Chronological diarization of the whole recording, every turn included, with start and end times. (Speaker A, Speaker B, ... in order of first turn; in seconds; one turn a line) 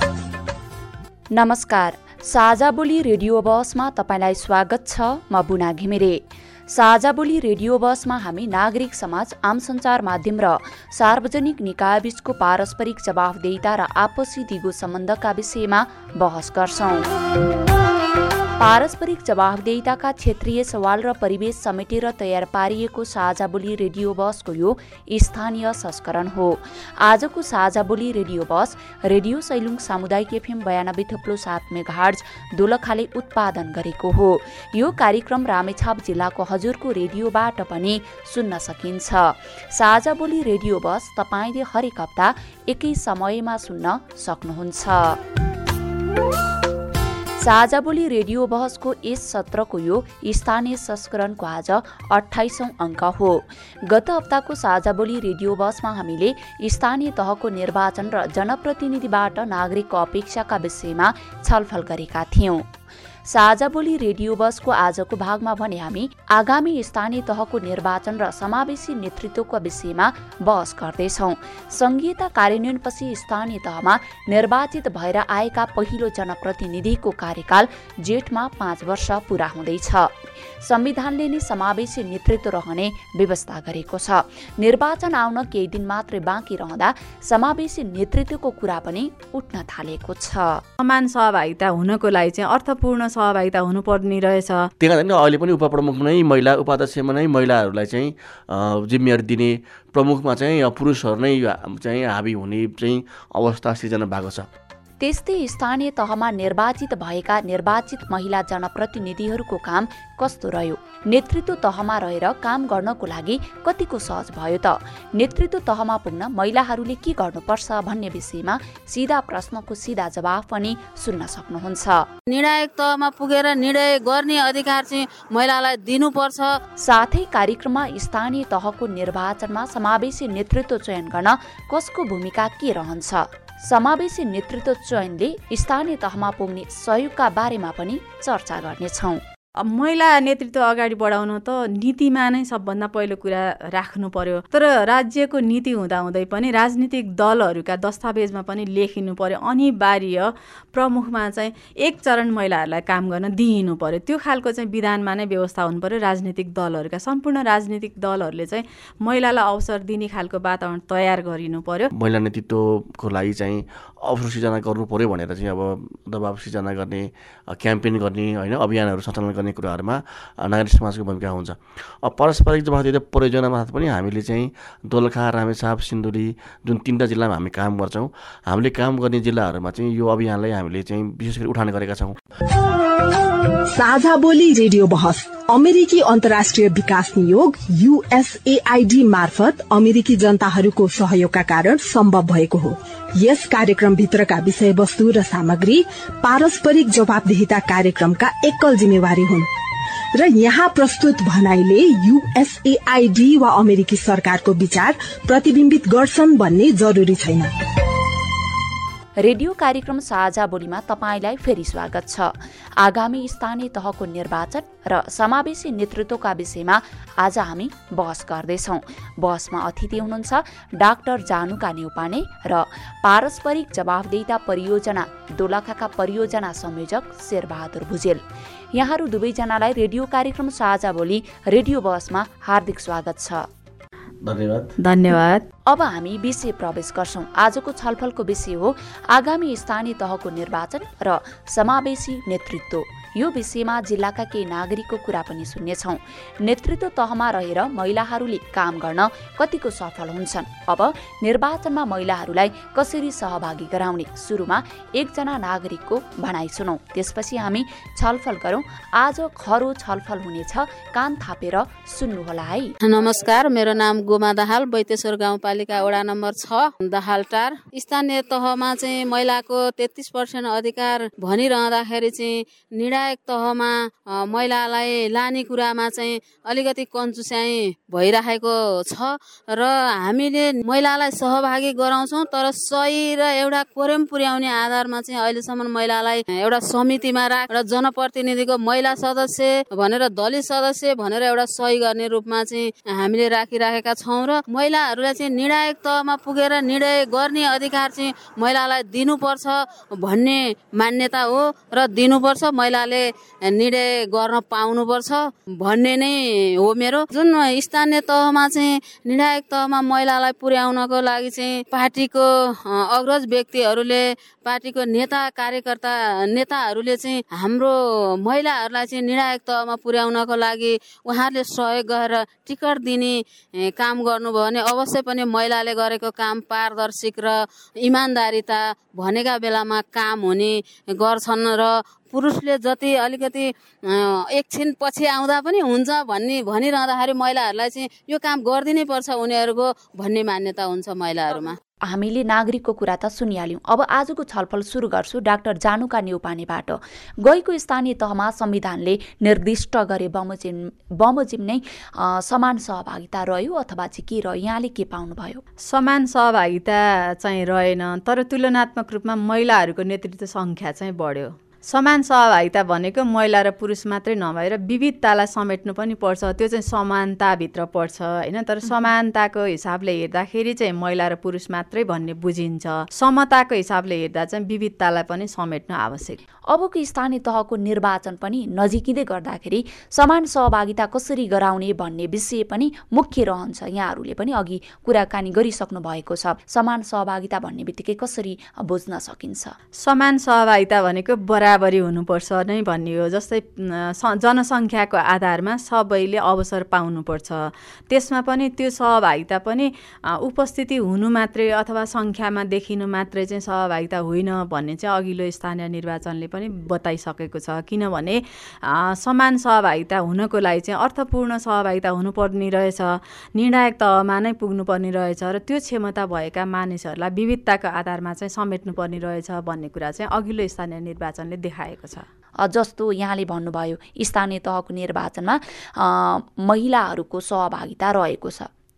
Speaker A: 1.3-17.1
Speaker A: 18.6-45.2
Speaker A: 47.4-62.7
Speaker A: 63.3-90.6
Speaker B: 90.8-94.7
Speaker C: 94.8-104.5
Speaker A: 105.0-122.1
Speaker D: 122.3-126.5
Speaker A: 126.8-139.2
Speaker B: 139.6-161.9
Speaker C: 161.9-182.2
Speaker E: 183.7-199.5
Speaker E: 200.1-207.5
Speaker A: 209.2-228.2
Speaker A: 228.7-233.4
Speaker C: 234.2-234.7
Speaker B: 234.8-235.4
Speaker A: 235.7-262.7
Speaker D: 262.8-341.6
Speaker A: 341.9-355.4
Speaker B: 355.6-376.2
Speaker A: 376.5-389.6
Speaker B: 389.8-422.0
Speaker A: 422.4-428.5